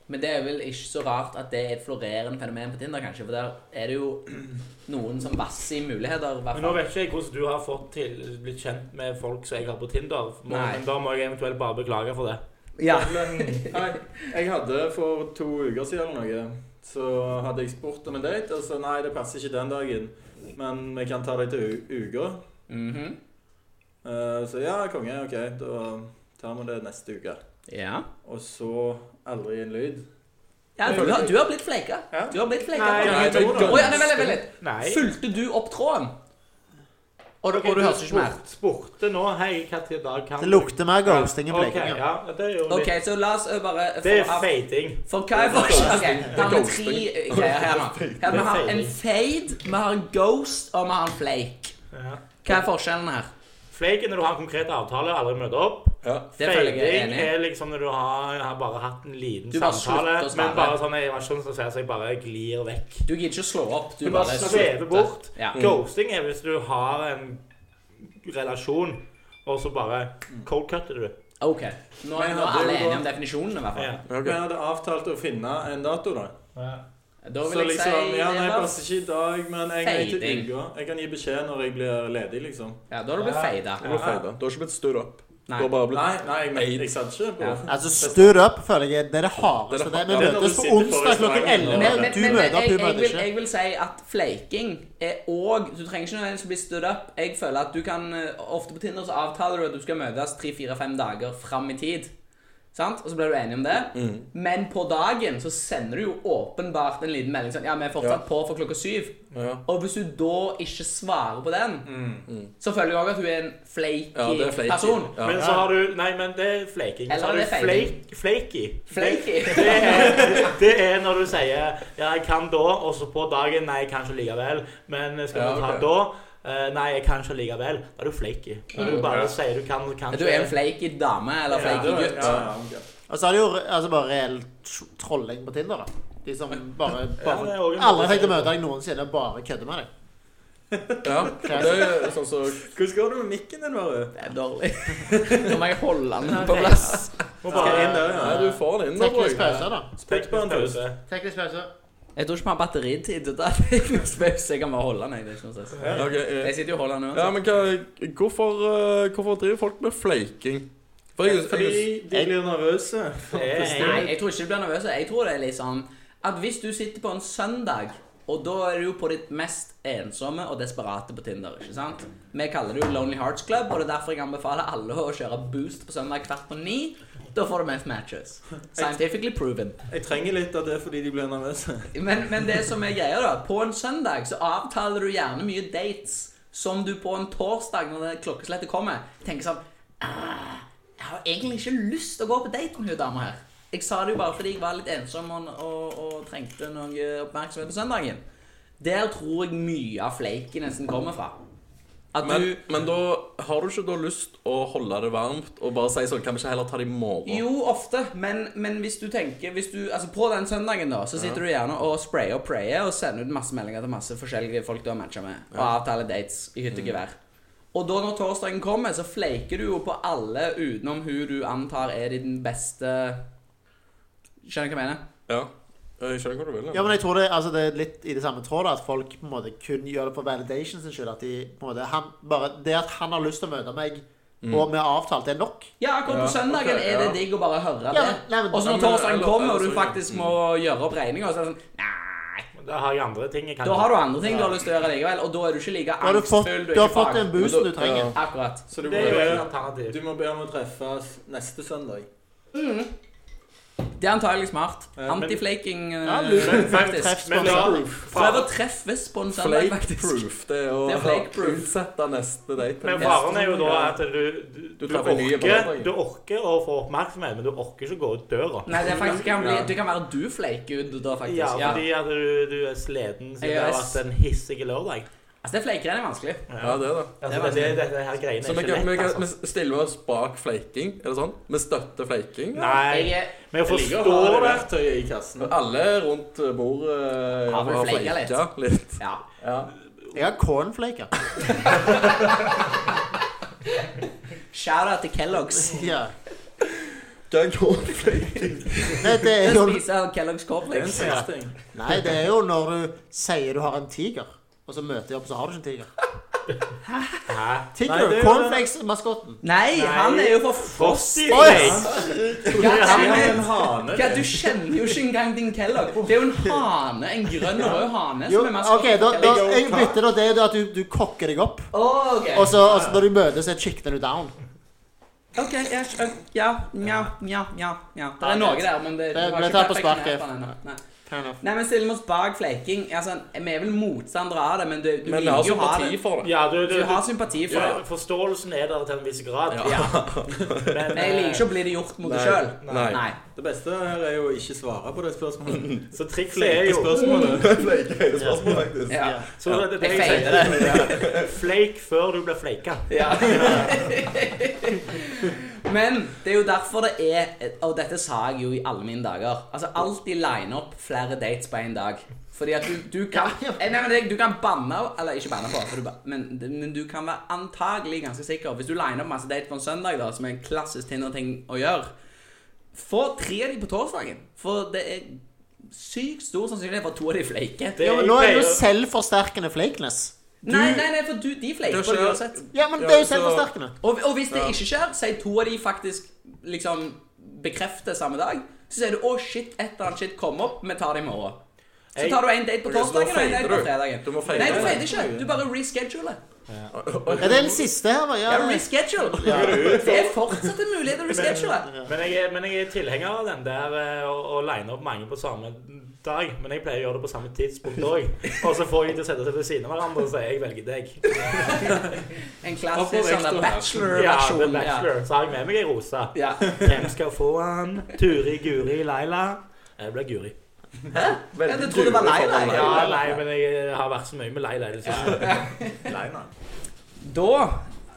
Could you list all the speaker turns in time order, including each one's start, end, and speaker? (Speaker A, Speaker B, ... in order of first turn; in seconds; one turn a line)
Speaker A: 0.1-6.8
Speaker B: 6.5-12.4
Speaker A: 10.5-10.8
Speaker A: 12.8-14.2
Speaker C: 12.8-22.4
Speaker A: 22.7-23.2
Speaker C: 24.0-27.4
Speaker A: 27.7-28.1
Speaker C: 28.2-30.0
Speaker A: 30.8-36.1
Speaker C: 30.8-31.4
Speaker C: 32.1-32.4
Speaker B: 32.7-34.0
Speaker C: 33.0-34.0
Speaker D: 33.0-34.4
Speaker B: 34.6-35.1
Speaker A: 37.4-38.4
Speaker B: 37.5-43.0
Speaker E: 40.4-42.0
Speaker A: 42.7-44.5
Speaker B: 44.0-45.1
Speaker A: 45.1-51.7
Speaker D: 45.3-48.5
Speaker B: 48.3-49.0
Speaker B: 51.9-52.4
Speaker A: 52.4-53.3
Speaker B: 53.7-63.1
Speaker A: 56.4-57.3
Speaker A: 59.5-60.8
Speaker A: 63.1-65.6
Speaker B: 64.0-67.4
Speaker B: 68.2-71.2
Speaker A: 71.4-74.0
Speaker C: 72.2-73.0
Speaker B: 73.8-74.0
Speaker D: 74.1-74.4
Speaker C: 74.2-76.3
Speaker B: 76.6-76.8
Speaker A: 77.2-78.8
Speaker C: 77.5-82.8
Speaker A: 79.8-80.5
Speaker A: 82.9-83.8
Speaker B: 83.2-84.2
Speaker D: 83.8-86.9
Speaker A: 85.5-85.7
Speaker C: 85.9-88.4
Speaker A: 87.4-87.7
Speaker E: 87.7-93.3
Speaker D: 89.7-90.6
Speaker C: 90.1-92.5
Speaker A: 91.7-102.1
Speaker A: 102.7-111.9
Speaker D: 103.9-104.3
Speaker D: 109.3-109.6
Speaker C: 111.9-112.3
Speaker A: 112.6-115.2
Speaker D: 114.2-115.4
Speaker B: 115.2-130.6
Speaker A: 117.1-118.0
Speaker A: 118.9-120.3
Speaker C: 120.0-120.5
Speaker D: 125.3-125.9
Speaker D: 128.8-129.3
Speaker A: 130.1-132.5
Speaker C: 131.5-132.8
Speaker D: 132.2-132.5
Speaker E: 133.1-139.9
Speaker B: 137.2-138.6
Speaker C: 140.7-142.0
Speaker D: 141.0-142.7
Speaker E: 141.4-141.9
Speaker C: 142.6-144.1
Speaker A: 144.2-147.8
Speaker C: 145.1-145.6
Speaker B: 146.3-148.4
Speaker C: 147.5-148.6
Speaker D: 148.1-149.7
Speaker E: 148.9-149.9
Speaker B: 149.9-151.0
Speaker C: 150.0-150.8
Speaker E: 151.1-151.7
Speaker A: 152.2-157.3
Speaker B: 155.8-156.0
Speaker D: 156.0-156.6
Speaker D: 157.1-161.9
Speaker C: 161.2-164.1
Speaker B: 163.3-164.1
Speaker A: 163.8-179.8
Speaker C: 179.9-181.9
Speaker A: 181.9-198.2
Speaker A: 198.8-201.3
Speaker A: 202.1-202.6
Speaker D: 202.2-207.4
Speaker A: 207.2-217.2
Speaker D: 211.2-211.4
Speaker D: 216.7-217.0
Speaker A: 217.7-223.2
Speaker A: 224.4-225.0
Speaker D: 225.3-226.9
Speaker E: 226.7-235.7
Speaker D: 234.4-234.7
Speaker A: 235.8-242.5
Speaker D: 236.1-237.2
Speaker E: 237.9-238.9
Speaker D: 238.7-240.4
Speaker B: 242.6-244.0
Speaker A: 243.6-249.3
Speaker E: 244.3-244.5
Speaker E: 246.0-248.2
Speaker D: 247.4-248.2
Speaker C: 248.7-252.1
Speaker B: 248.8-250.0
Speaker A: 252.5-252.9
Speaker A: 254.0-260.3
Speaker C: 255.0-255.3
Speaker B: 255.1-255.4
Speaker E: 256.0-257.9
Speaker B: 256.4-258.5
Speaker C: 257.7-258.1
Speaker D: 259.3-263.9
Speaker A: 260.9-261.7
Speaker B: 262.8-269.2
Speaker A: 263.0-263.3
Speaker D: 264.8-265.9
Speaker A: 268.7-271.9
Speaker C: 268.9-269.7
Speaker B: 271.3-275.1
Speaker A: 273.4-274.0
Speaker A: 275.4-276.5
Speaker B: 276.5-279.3
Speaker D: 276.6-277.2
Speaker A: 277.3-277.8
Speaker D: 278.4-282.8
Speaker B: 282.6-284.7
Speaker A: 282.9-283.4
Speaker C: 283.7-285.6
Speaker D: 285.4-289.7
Speaker A: 287.5-289.2
Speaker E: 290.1-291.1
Speaker A: 291.6-292.6
Speaker A: 294.5-295.9
Speaker E: 295.5-296.1
Speaker D: 297.3-299.0
Speaker A: 298.1-301.3
Speaker E: 299.0-299.8
Speaker C: 300.7-301.6
Speaker E: 301.7-305.9
Speaker A: 306.9-307.3
Speaker B: 307.3-307.7
Speaker E: 307.7-309.4
Speaker C: 307.8-308.6
Speaker A: 309.4-319.6
Speaker B: 309.7-311.9
Speaker E: 311.3-312.8
Speaker C: 311.5-314.6
Speaker B: 312.6-313.4
Speaker C: 317.6-317.8
Speaker E: 318.3-321.7
Speaker C: 319.2-320.0
Speaker A: 321.7-322.6
Speaker E: 322.3-324.4
Speaker C: 322.6-323.0
Speaker A: 325.4-330.8
Speaker E: 328.2-330.2
Speaker E: 331.1-331.4
Speaker A: 331.4-336.0
Speaker D: 335.0-336.3
Speaker B: 336.2-339.9
Speaker A: 336.6-337.8
Speaker D: 337.5-337.8
Speaker D: 339.5-341.1
Speaker A: 339.6-340.1
Speaker B: 340.6-341.5
Speaker A: 340.9-343.2
Speaker D: 342.0-343.0
Speaker B: 342.6-343.0
Speaker C: 343.4-347.6
Speaker D: 345.5-345.9
Speaker B: 345.9-347.1
Speaker D: 347.1-351.3
Speaker E: 348.1-349.2
Speaker A: 348.9-351.0
Speaker B: 349.3-353.5
Speaker A: 352.9-371.9
Speaker C: 353.4-353.6
Speaker E: 363.1-363.6
Speaker A: 372.7-377.8
Speaker B: 377.8-378.6
Speaker E: 377.8-380.2
Speaker A: 380.4-382.4
Speaker D: 380.5-380.8
Speaker D: 381.7-383.5
Speaker E: 382.5-383.7
Speaker A: 383.8-391.4
Speaker D: 384.3-384.6
Speaker B: 391.9-392.2
Speaker A: 392.0-396.2
Speaker D: 392.6-394.9
Speaker C: 394.3-395.3
Speaker D: 396.7-397.6
Speaker E: 397.2-399.8
Speaker A: 398.3-401.7
Speaker C: 399.2-400.5
Speaker B: 401.1-411.7
Speaker A: 411.2-414.9
Speaker C: 412.7-414.1
Speaker B: 413.9-420.4
Speaker A: 416.1-416.6
Speaker A: 420.9-423.2
Speaker D: 421.3-423.0
Speaker B: 422.5-425.4
Speaker A: 424.9-425.9
Speaker C: 425.8-426.3
Speaker A: 427.0-427.6